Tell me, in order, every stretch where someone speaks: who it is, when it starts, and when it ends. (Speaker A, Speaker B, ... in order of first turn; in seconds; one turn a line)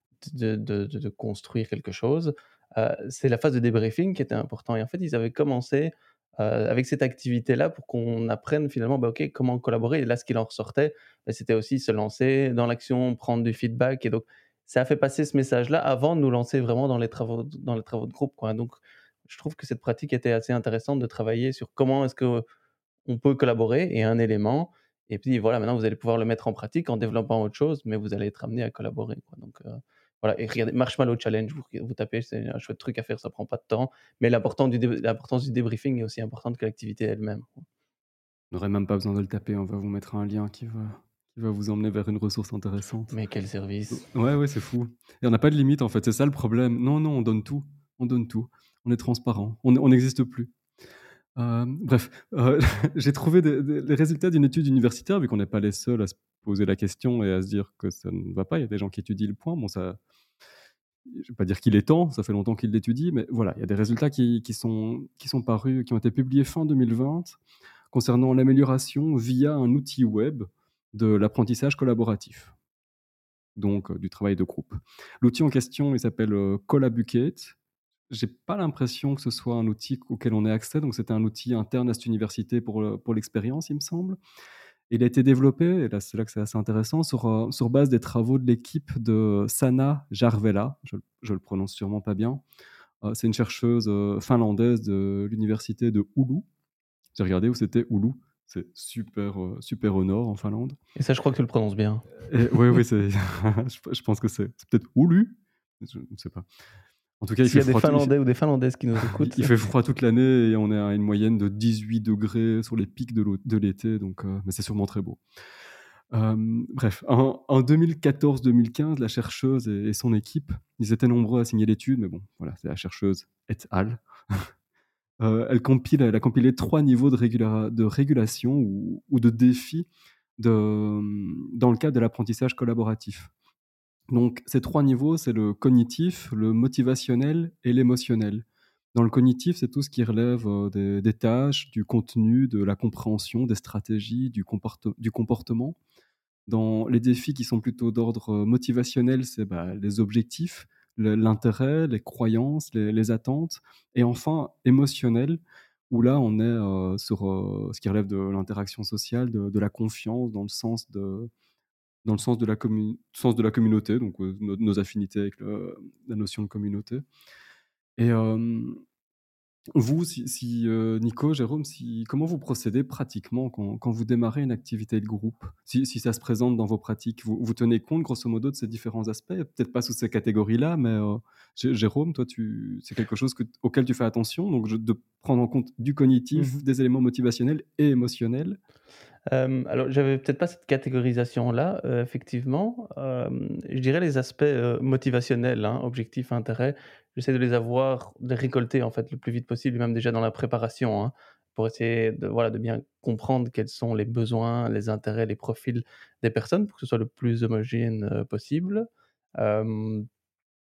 Speaker A: 0.2-22.4
Speaker A: 23.1-37.7
Speaker B: 38.5-43.1
Speaker A: 43.1-44.1
Speaker B: 43.9-50.5
Speaker B: 51.4-60.0
Speaker B: 61.1-67.4
Speaker B: 67.9-72.5
Speaker B: 73.6-77.6
Speaker B: 78.1-84.2
Speaker B: 84.9-92.4
Speaker B: 93.0-96.5
Speaker B: 97.2-100.8
Speaker A: 101.0-102.1
Speaker B: 102.3-106.5
Speaker B: 107.2-108.1
Speaker A: 107.5-109.5
Speaker B: 109.0-115.2
Speaker B: 116.1-124.5
Speaker B: 125.2-133.3
Speaker B: 134.1-145.8
Speaker B: 146.5-161.3
Speaker B: 162.1-167.1
Speaker B: 168.0-168.8
Speaker B: 169.7-188.6
Speaker A: 186.3-186.6
Speaker A: 189.3-210.1